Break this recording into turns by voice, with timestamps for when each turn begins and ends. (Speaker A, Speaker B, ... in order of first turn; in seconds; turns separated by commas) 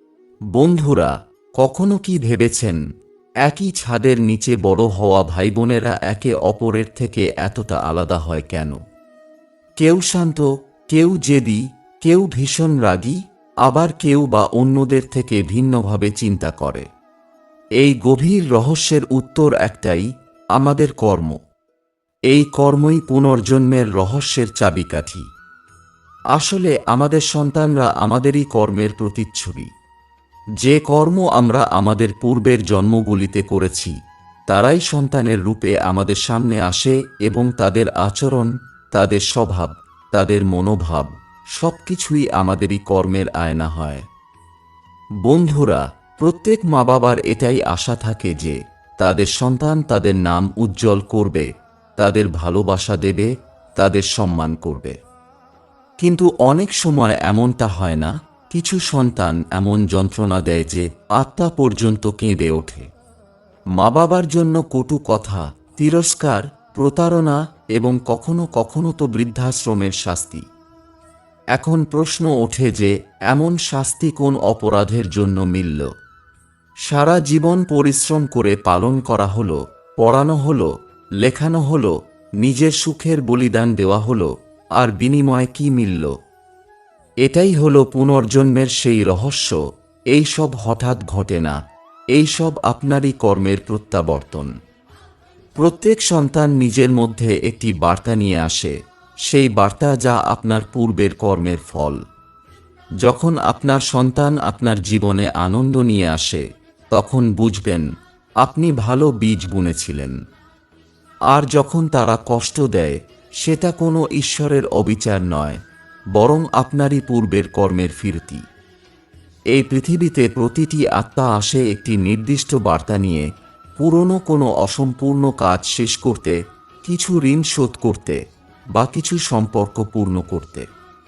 Speaker A: 0.5-2.8, Speaker A: 3.4-8.8, Speaker A: 9.8-16.9, Speaker A: 17.8-21.4, Speaker A: 22.3-25.3, Speaker A: 26.3-29.7, Speaker A: 30.6-34.0, Speaker A: 34.5-44.1, Speaker A: 45.2-55.0, Speaker A: 56.0-62.9, Speaker A: 63.8-70.5, Speaker A: 71.6-75.9, Speaker A: 76.9-86.1, Speaker A: 87.2-89.6, Speaker A: 90.1-91.6, Speaker A: 92.1-94.5, Speaker A: 95.6-102.0, Speaker A: 103.0-107.9, Speaker A: 108.4-110.2, Speaker A: 111.3-115.6, Speaker A: 116.1-118.4, Speaker A: 119.5-128.2, Speaker A: 128.8-130.7